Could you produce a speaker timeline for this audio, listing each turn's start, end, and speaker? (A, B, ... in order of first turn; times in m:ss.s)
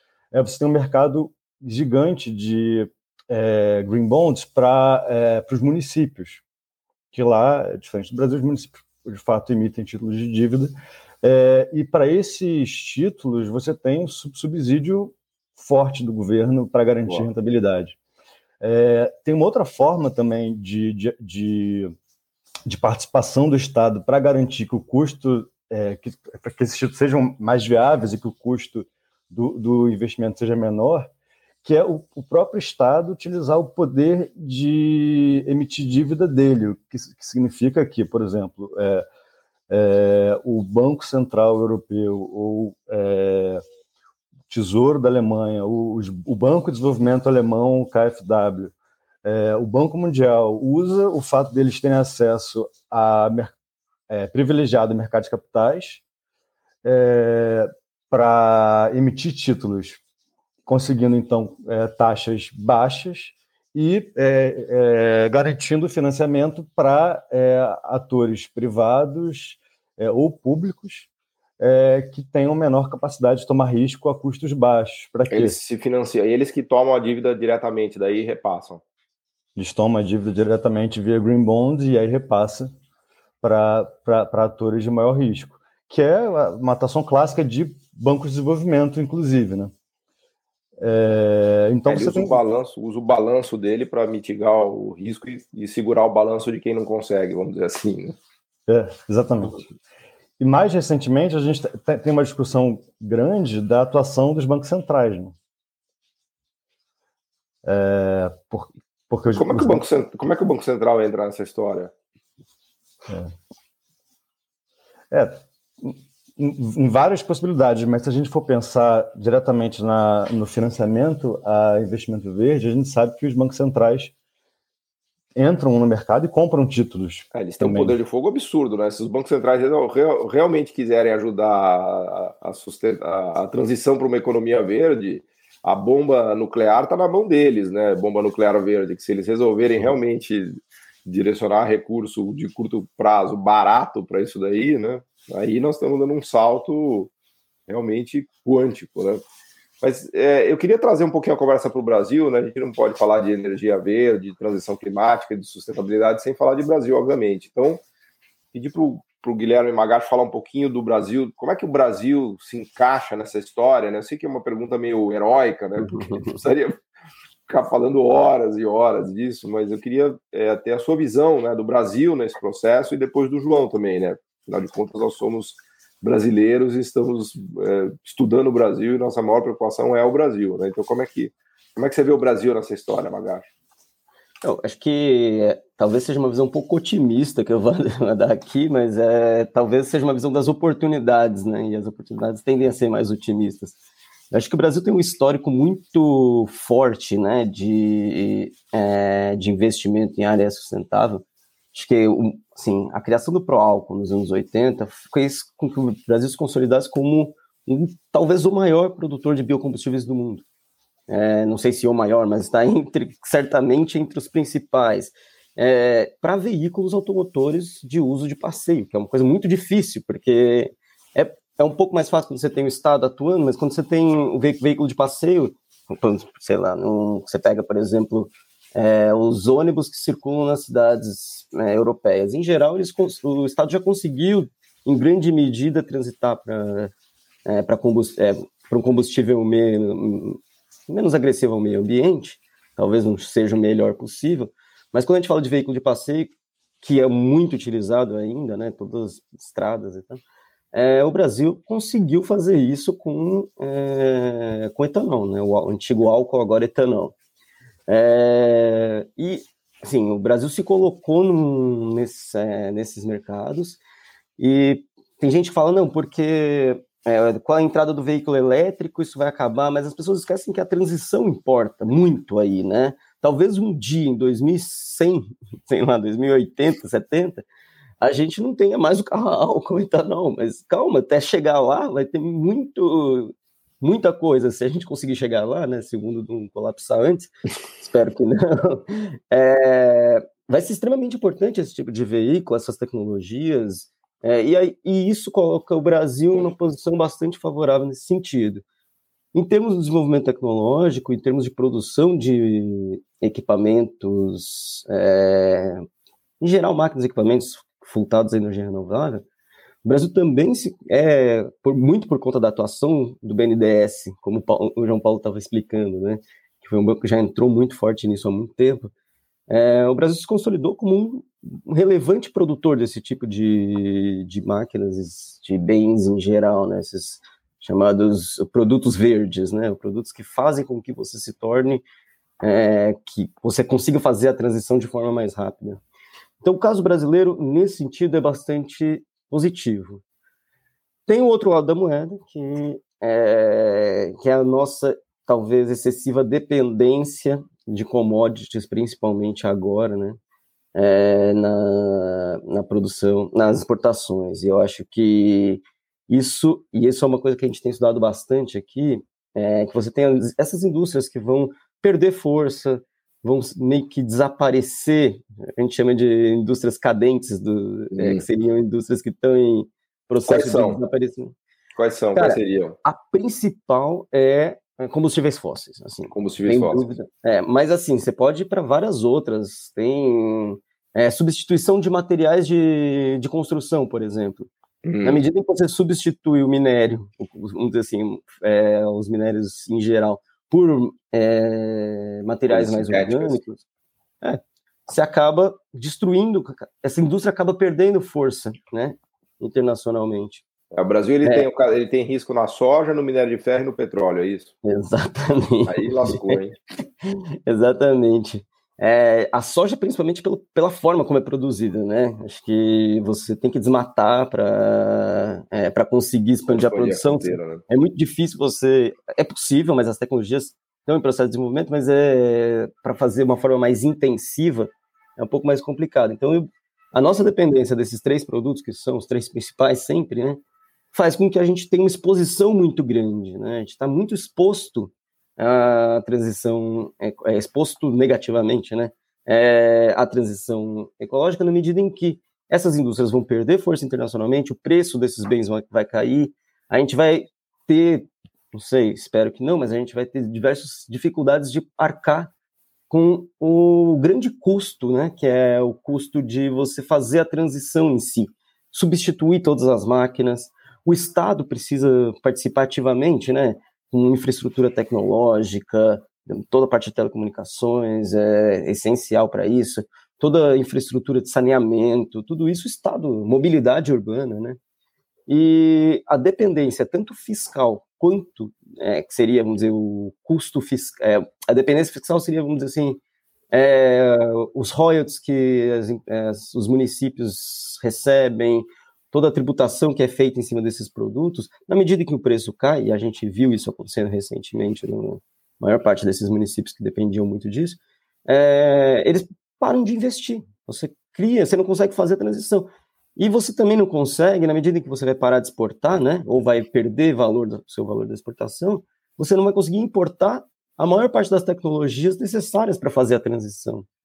0:00.3-0:06.4 A
0:07.1-0:18.0 A
0:18.6-0:21.9 A
0:22.6-0:31.1 A
0:31.6-0:39.0 A
0:39.7-0:43.6 A
0:44.5-0:53.5 A
0:54.1-0:56.0 A
0:56.8-1:00.0 A
1:00.6-1:11.1 A
1:11.6-1:15.6 A
1:15.3-1:18.8 B
1:19.6-1:22.7 A
1:23.4-1:29.7 A
1:30.8-1:32.4 A
1:31.9-1:38.2 B
1:38.7-1:39.6 A
1:40.4-1:45.3 A
1:47.6-1:49.8 A
1:49.3-1:51.9 B
1:53.1-1:53.3 A
1:55.1-2:04.1 A
2:05.4-2:08.0 A
2:07.3-2:20.5 B
2:21.0-2:27.1 B
2:27.7-2:29.2 B
2:29.8-2:37.8 B
2:38.5-2:46.7 B
2:45.8-2:46.4 C
2:47.5-3:03.5 B
3:04.4-3:13.8 C
3:14.3-3:30.4 C
3:31.1-3:56.9 C
3:57.4-4:10.2 C
4:10.7-4:17.1 C
4:17.9-4:23.8 C
4:24.4-4:37.4 C
4:38.0-4:58.6 C
4:59.3-5:05.8 C
5:06.4-5:09.2 C
5:09.8-5:18.9 C
5:19.5-5:31.8 C
5:32.4-5:35.8 C
5:36.4-5:40.0 C
5:41.1-5:50.2 C
5:50.7-6:11.3 C
6:07.9-6:08.2 B
6:10.3-6:10.8 B
6:11.8-6:12.8 B
6:12.1-6:24.5 C
6:16.1-6:16.9 B
6:24.8-6:25.2 B
6:25.0-6:33.6 C
6:32.5-6:33.4 B
6:34.2-6:40.4 C
6:40.7-6:44.5 B
6:44.6-6:46.4 C
6:45.7-6:46.6 B
6:47.0-7:10.4 C
6:56.5-6:57.6 B
7:10.9-7:32.3 C
7:32.9-7:54.6 C
7:55.3-8:03.0 C
8:03.5-8:33.9 C